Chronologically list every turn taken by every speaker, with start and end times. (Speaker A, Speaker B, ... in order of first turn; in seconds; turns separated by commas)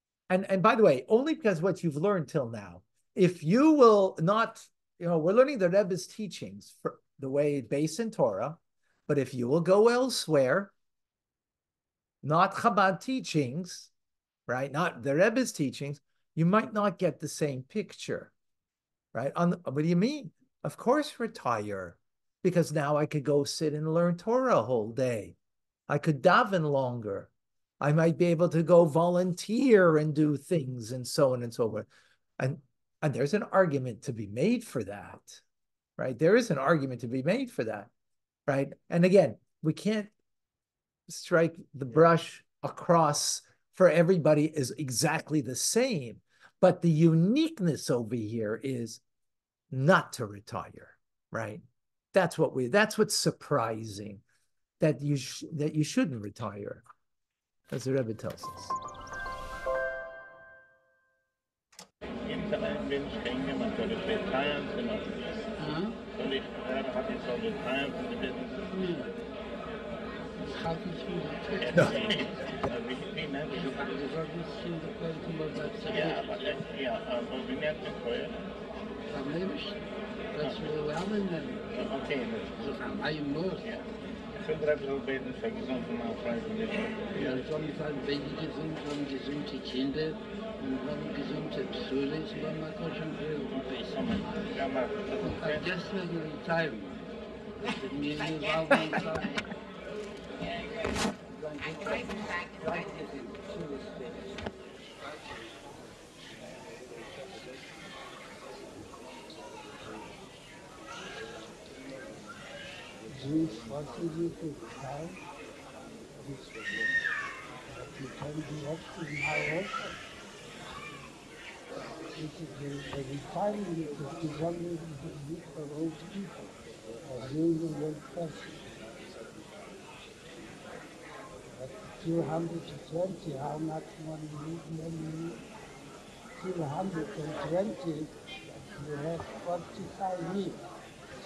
Speaker A: 0.3-10.7, Speaker A: 12.2-13.9, Speaker A: 14.5-18.3, Speaker A: 19.1-25.4, Speaker A: 25.9-27.3, Speaker A: 27.8-31.9, Speaker A: 32.4-35.4, Speaker A: 36.0-37.9, Speaker A: 38.5-40.1, Speaker A: 41.1-49.0, Speaker A: 49.7-51.6, Speaker A: 52.1-54.2, Speaker A: 54.8-56.8, Speaker A: 57.7-58.8, Speaker B: 62.3-65.5, Speaker C: 65.6-65.9, Speaker B: 66.1-68.7, Speaker C: 68.7-69.1, Speaker C: 70.4-72.2, Speaker B: 71.6-73.9, Speaker C: 73.5-76.4, Speaker B: 75.9-78.4, Speaker C: 79.1-79.8, Speaker C: 80.3-81.6, Speaker B: 80.4-80.7, Speaker B: 81.7-82.7, Speaker C: 82.6-83.7, Speaker B: 84.4-87.4, Speaker C: 87.1-93.9, Speaker B: 93.4-95.7, Speaker C: 95.2-97.1, Speaker C: 97.7-99.4, Speaker C: 101.4-103.9, Speaker C: 113.1-115.2, Speaker C: 117.7-119.9, Speaker C: 122.2-126.4, Speaker C: 127.0-128.6, Speaker C: 131.6-135.4, Speaker C: 136.4-138.1, Speaker C: 138.7-140.6